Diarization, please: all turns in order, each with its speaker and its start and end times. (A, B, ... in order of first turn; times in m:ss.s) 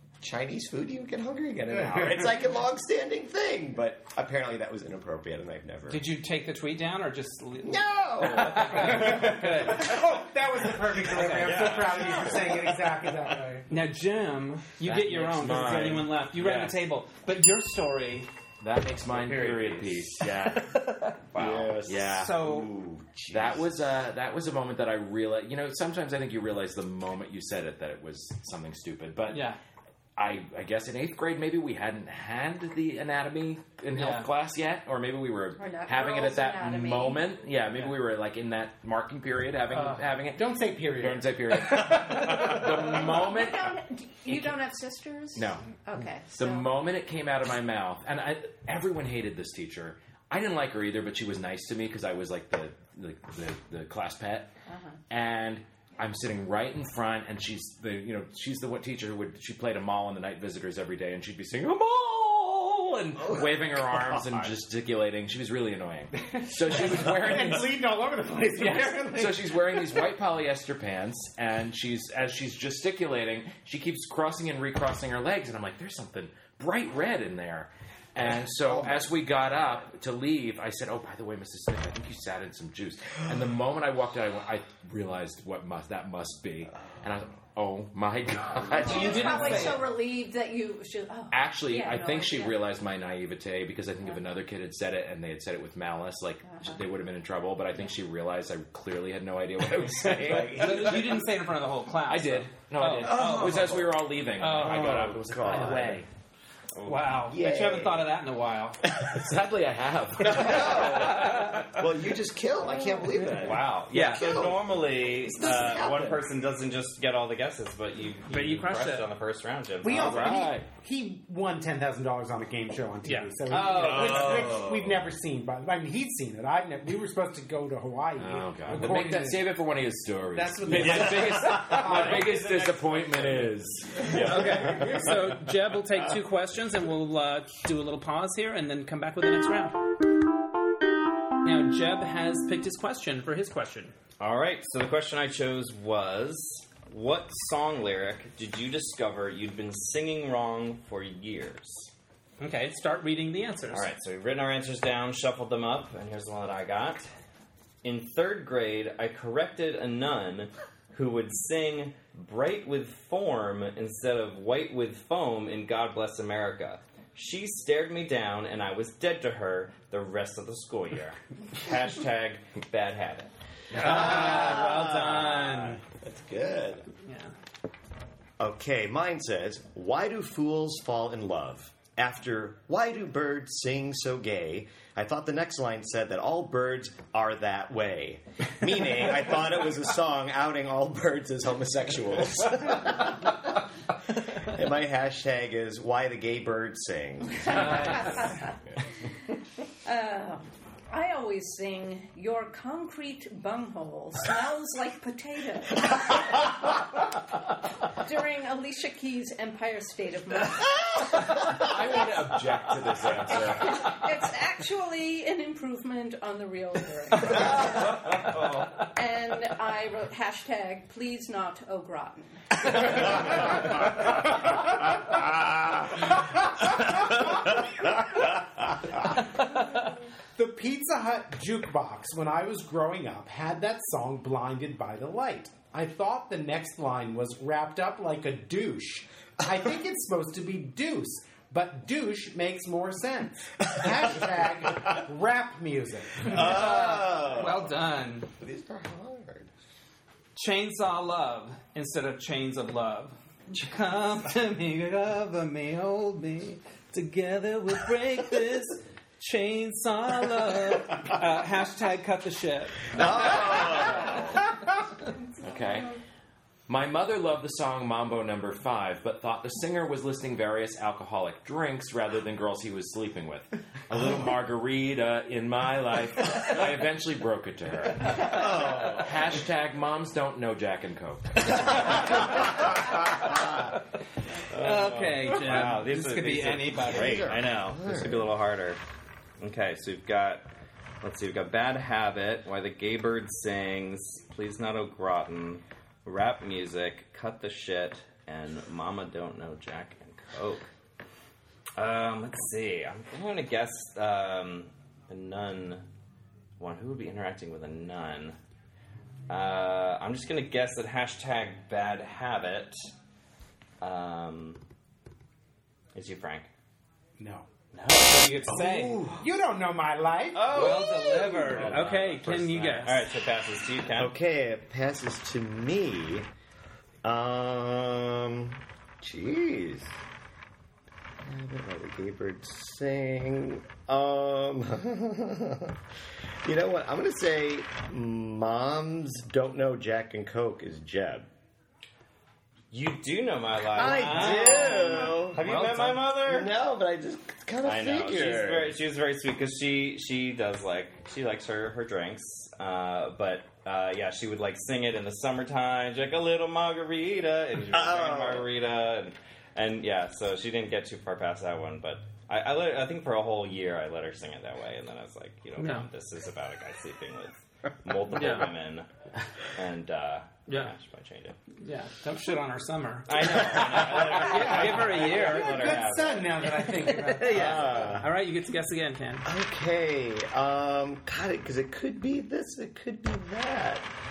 0:00.2-0:06.0 A
0:01.7-0:02.4 B
0:05.9-0:10.0 C
0:07.6-0:09.8 A
0:08.7-0:13.7 B
0:11.1-0:12.6 D
0:13.7-0:18.3 C
0:14.8-0:16.8 E
0:18.6-0:20.8 E
0:19.1-0:20.1 D
0:20.4-0:21.2 C
0:21.3-0:21.8 D
0:21.3-0:23.7 A
0:21.8-0:22.4 E
0:22.1-0:22.7 C
0:23.3-0:29.5 E
0:29.3-0:29.6 C
0:30.2-0:43.8 E
0:33.9-0:34.3 C
0:35.6-0:37.3 F
0:39.7-0:40.0 C
0:40.3-0:42.7 B
0:42.5-0:46.7 F
0:45.3-0:54.5 E
0:54.7-0:55.0 F
0:55.1-1:07.9 E
1:03.2-1:04.5 A
1:06.1-1:10.1 B
1:08.5-1:29.8 E
1:28.8-1:32.6 F
1:28.8-1:29.8 C
1:31.3-1:41.2 E
1:36.4-1:36.8 F
1:39.9-1:41.3 A
1:40.3-1:46.0 C
1:42.0-1:46.1 E
1:42.9-1:46.0 A
1:46.7-1:47.1 D
1:46.8-1:48.8 C
1:47.2-1:48.1 A
1:48.9-1:49.2 A
1:49.0-1:51.4 E
1:50.2-1:56.2 A
1:50.8-1:51.5 C
1:52.7-1:54.2 E
1:53.3-2:00.5 D
1:58.3-1:59.0 C
1:59.8-2:09.5 B
1:59.8-2:00.7 E
2:03.0-2:04.4 C
2:03.7-2:05.0 A
2:03.9-2:04.2 D
2:08.2-2:15.2 E
2:10.3-2:12.3 B
2:10.8-2:12.2 A
2:14.1-2:14.7 A
2:14.1-2:19.8 C
2:21.4-2:23.9 C
2:24.2-2:31.9 D
2:32.4-2:33.9 C
2:33.7-2:37.1 D
2:37.8-2:53.3 D
2:53.7-2:54.1 E
2:53.7-2:56.9 A
2:53.8-2:55.8 C
2:57.0-2:57.3 C
2:58.4-3:13.6 A
3:14.3-3:18.1 A
3:17.2-3:19.1 F
3:19.8-3:26.7 F
3:27.9-3:32.1 F
3:31.5-3:33.9 E
3:33.5-3:37.9 F
3:37.6-3:38.7 D
3:38.9-3:43.8 F
3:50.4-4:06.3 B
4:06.2-4:07.8 A
4:06.2-4:08.3 C
4:08.4-4:09.5 A
4:10.3-4:23.6 C
4:22.9-4:24.4 A
4:25.4-4:26.0 E
4:26.7-4:42.1 E
4:38.2-4:39.4 A
4:41.8-4:43.7 A
4:44.5-4:48.8 D
4:44.5-4:47.3 C
4:46.7-4:48.3 A
4:49.4-4:50.5 D
4:51.0-5:00.6 D
5:01.8-5:05.8 D
5:06.6-5:08.4 D
5:09.3-5:12.8 D
5:13.8-5:14.6 D
5:15.9-5:16.5 D
5:17.2-5:17.5 B
5:17.7-5:19.0 C
5:18.4-5:19.3 A
5:19.2-5:20.6 B
5:20.3-5:24.1 D
5:20.4-5:21.9 A
5:20.5-5:23.0 C
5:23.9-5:26.2 A
5:27.0-5:29.9 A
5:31.2-5:35.8 A
5:36.4-5:41.3 A
5:42.7-5:46.5 D
5:43.7-5:48.8 A
5:43.8-5:46.0 C
5:47.6-6:11.4 D
5:57.7-5:58.5 A
6:05.6-6:05.9 C
6:08.1-6:08.5 C
6:10.5-6:10.7 C
6:11.6-6:15.8 C
6:13.1-6:16.6 D
6:14.1-6:17.8 B
6:16.5-6:19.3 C
6:17.2-6:18.1 A
6:17.3-6:17.8 D
6:19.2-6:23.9 A